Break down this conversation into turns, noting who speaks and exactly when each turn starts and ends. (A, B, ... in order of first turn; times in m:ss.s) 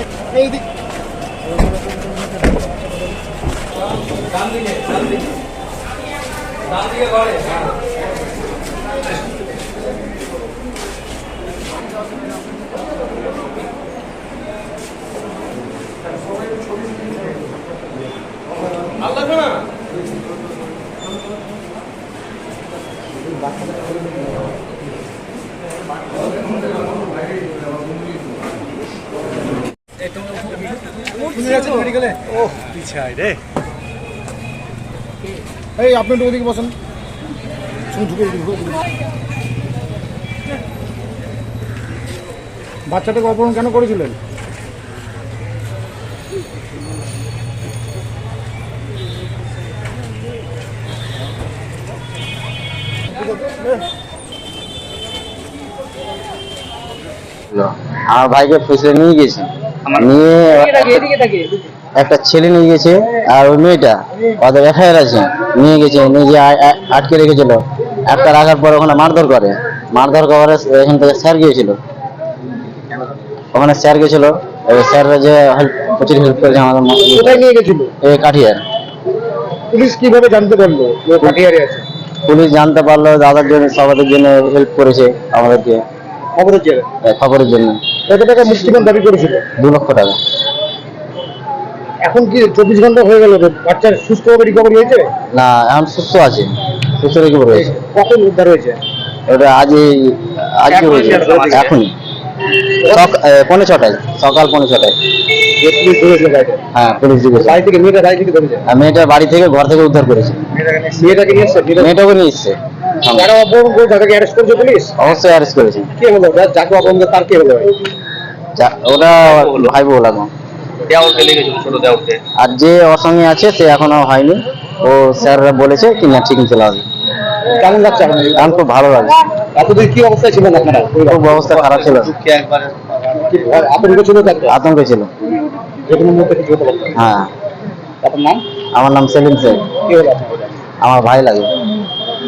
0:35.8-0:36.7 A
0:37.9-0:38.8 A
0:42.9-0:44.2 A
0:57.5-1:00.9 B
0:59.8-1:00.2 C
1:00.6-1:01.6 A
1:02.0-1:11.8 B
1:13.5-1:17.4 B
1:17.0-1:17.9 A
1:18.0-1:18.6 B
1:19.7-1:21.8 A
1:22.2-1:25.8 B
1:26.4-1:26.8 A
1:27.0-1:27.8 B
1:28.1-1:29.4 A
1:29.6-1:30.2 B
1:32.0-1:35.1 A
1:35.3-1:37.7 B
1:37.5-1:38.8 A
1:39.3-1:42.0 B
1:40.7-1:41.7 C
1:41.0-1:41.5 A
1:42.8-1:43.1 A
1:42.9-1:45.0 B
1:45.6-1:46.6 A
1:46.7-1:47.6 B
1:47.4-1:48.6 A
1:48.7-1:50.4 B
1:50.8-1:51.2 C
1:51.0-1:51.9 A
1:51.8-1:53.3 B
1:53.1-1:55.0 A
1:55.0-1:55.9 B
1:56.0-1:57.7 A
1:58.6-2:00.3 B
1:59.1-1:59.7 C
2:00.9-2:02.2 C
2:02.4-2:06.8 B
2:07.6-2:08.6 A
2:08.4-2:09.2 B
2:09.5-2:11.4 A
2:11.1-2:12.1 B
2:11.4-2:13.5 C
2:13.3-2:14.5 A
2:14.5-2:15.1 B
2:15.8-2:17.0 A
2:17.0-2:17.3 B
2:18.0-2:18.4 A
2:18.7-2:19.7 B
2:19.8-2:20.4 A
2:20.8-2:21.5 B